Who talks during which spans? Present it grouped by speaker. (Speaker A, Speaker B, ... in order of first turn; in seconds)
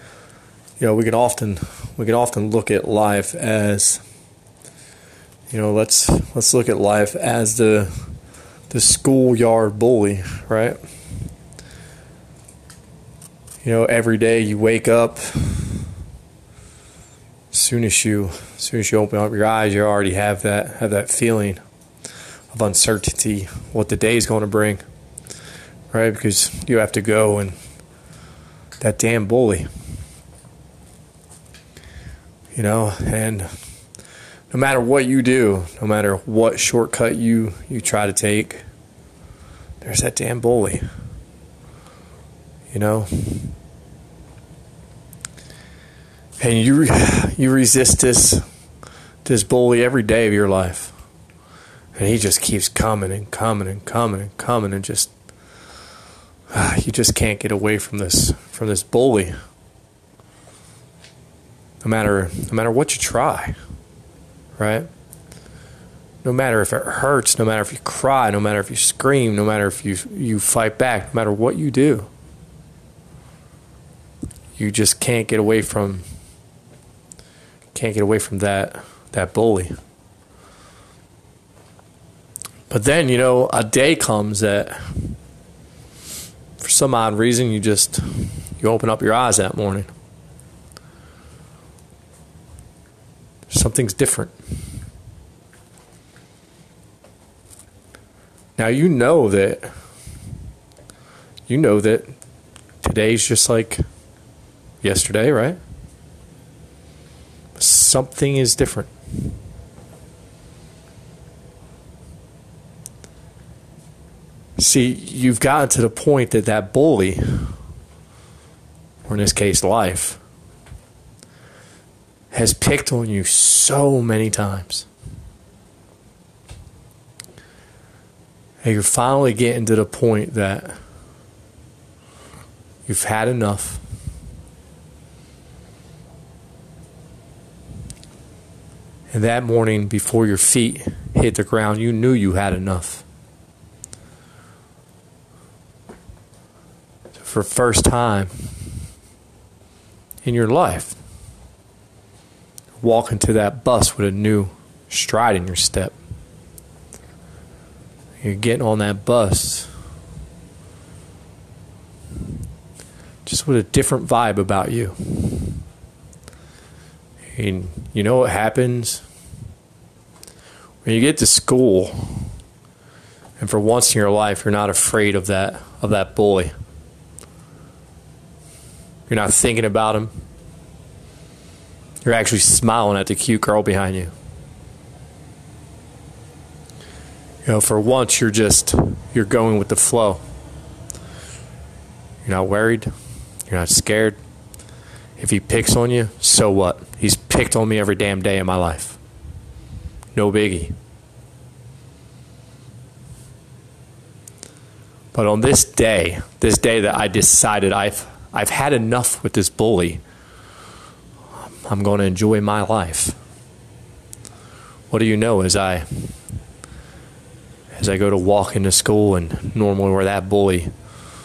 Speaker A: 0.8-4.0, 5.5-7.9, 8.7-10.8, 13.6-15.9, 17.5-21.6, 22.5-24.8, 25.9-27.6, 28.8-29.7, 32.5-33.5, 34.5-38.6, 39.8-40.8, 42.7-43.5, 46.4-48.4, 49.2-51.0, 52.0-55.1, 56.5-59.3, 61.8-63.6, 64.6-64.9, 66.2-72.1, 74.6-76.0, 77.7-79.8, 82.7-85.2, 86.6-89.9, 93.5-94.3, 98.6-99.7, 101.5-102.1, 102.8-103.8, 104.8-105.6, 107.6-108.9, 114.6-117.5, 119.1-120.2, 122.3-124.9, 128.6-130.8, 132.9-133.8, 139.1-143.1, 147.2-148.8, 150.2-151.0, 152.8-155.9, 158.2-159.7, 163.2-165.6, 167.3-169.0, 170.8-172.3, 173.4-176.5, 179.1-180.1, 182.0-184.1, 187.4-190.2, 192.2-192.9, 193.5-194.2, 195.2-199.0, 200.1-200.7, 205.1-210.0, 211.5-213.2, 214.9-216.1, 217.8-220.7